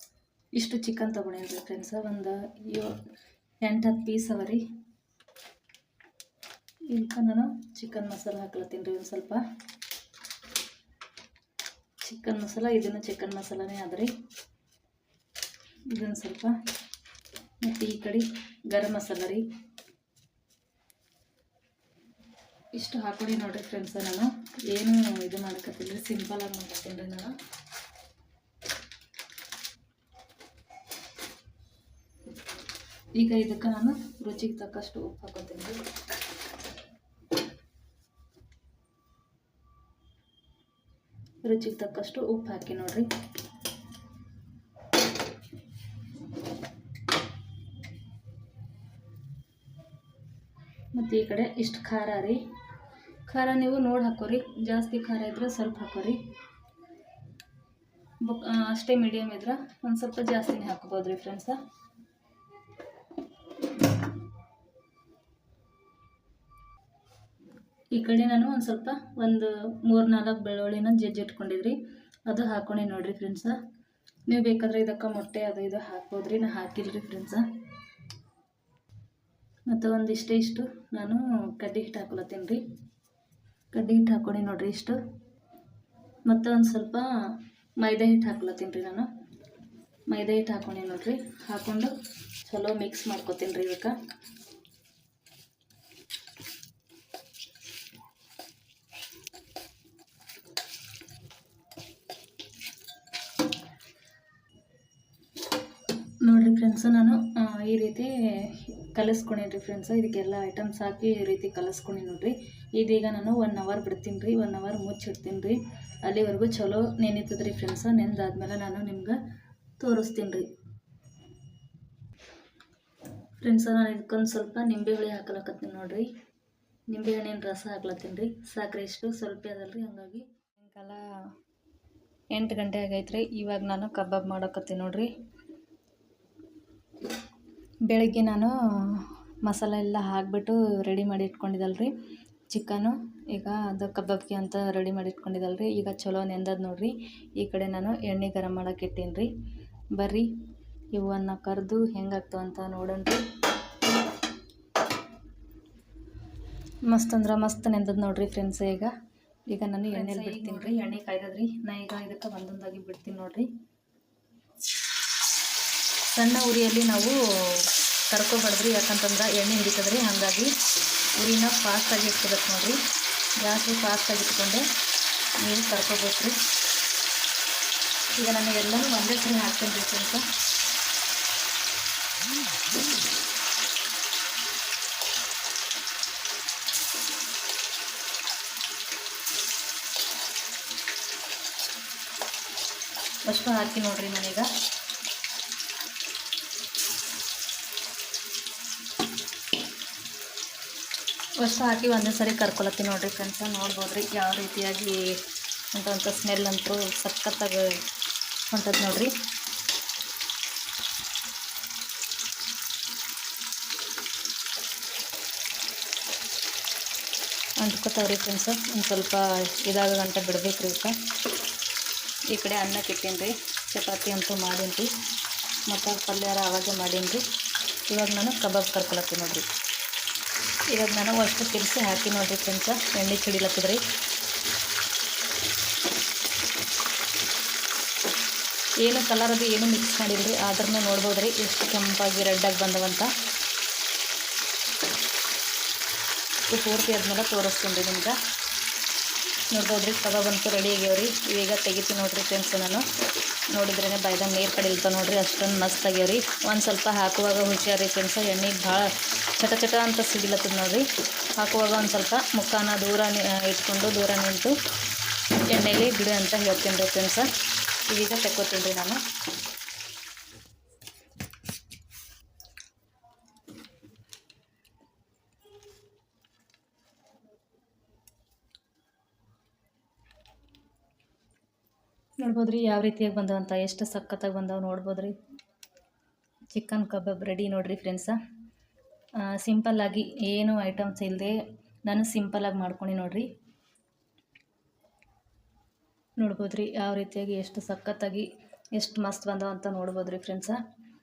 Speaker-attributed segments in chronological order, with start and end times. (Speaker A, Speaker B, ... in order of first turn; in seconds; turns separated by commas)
Speaker A: 0.6-3.0, Speaker A: 3.6-4.6, Speaker A: 6.9-9.4, Speaker A: 12.0-14.1, Speaker A: 15.9-16.5, Speaker A: 17.6-19.4, Speaker A: 22.7-27.3, Speaker A: 33.2-35.8, Speaker A: 41.4-43.1, Speaker A: 50.9-52.4, Speaker A: 53.3-56.2, Speaker A: 58.2-61.6, Speaker A: 67.9-71.8, Speaker A: 72.3-73.5, Speaker A: 74.3-77.4, Speaker A: 79.7-82.6, Speaker A: 83.7-85.0, Speaker A: 86.2-87.0, Speaker A: 87.8-89.1, Speaker A: 90.1-91.9, Speaker A: 92.4-93.9, Speaker A: 106.2-119.2, Speaker A: 119.8-120.5, Speaker A: 123.4-126.1, Speaker A: 126.9-131.1, Speaker A: 132.3-135.1, Speaker A: 137.8-141.9, Speaker A: 142.5-149.3, Speaker A: 149.9-150.3, Speaker A: 150.9-153.2, Speaker A: 156.9-158.9, Speaker A: 159.5-163.5, Speaker A: 166.1-170.5, Speaker A: 171.2-172.8, Speaker A: 173.4-174.7, Speaker A: 175.4-176.3, Speaker A: 178.2-180.2, Speaker A: 193.2-194.5, Speaker A: 201.4-205.2, Speaker A: 205.7-207.8, Speaker A: 208.5-209.1, Speaker A: 217.6-221.0, Speaker A: 222.3-224.9, Speaker A: 225.7-227.2, Speaker A: 227.9-229.5, Speaker A: 230.7-233.8, Speaker A: 238.8-243.1, Speaker A: 246.5-248.2, Speaker A: 249.5-252.8, Speaker A: 253.5-260.9, Speaker A: 261.4-264.5, Speaker A: 265.5-267.3, Speaker A: 267.9-269.0, Speaker A: 282.2-285.1, Speaker A: 286.5-288.2, Speaker A: 289.2-293.3, Speaker A: 296.2-300.6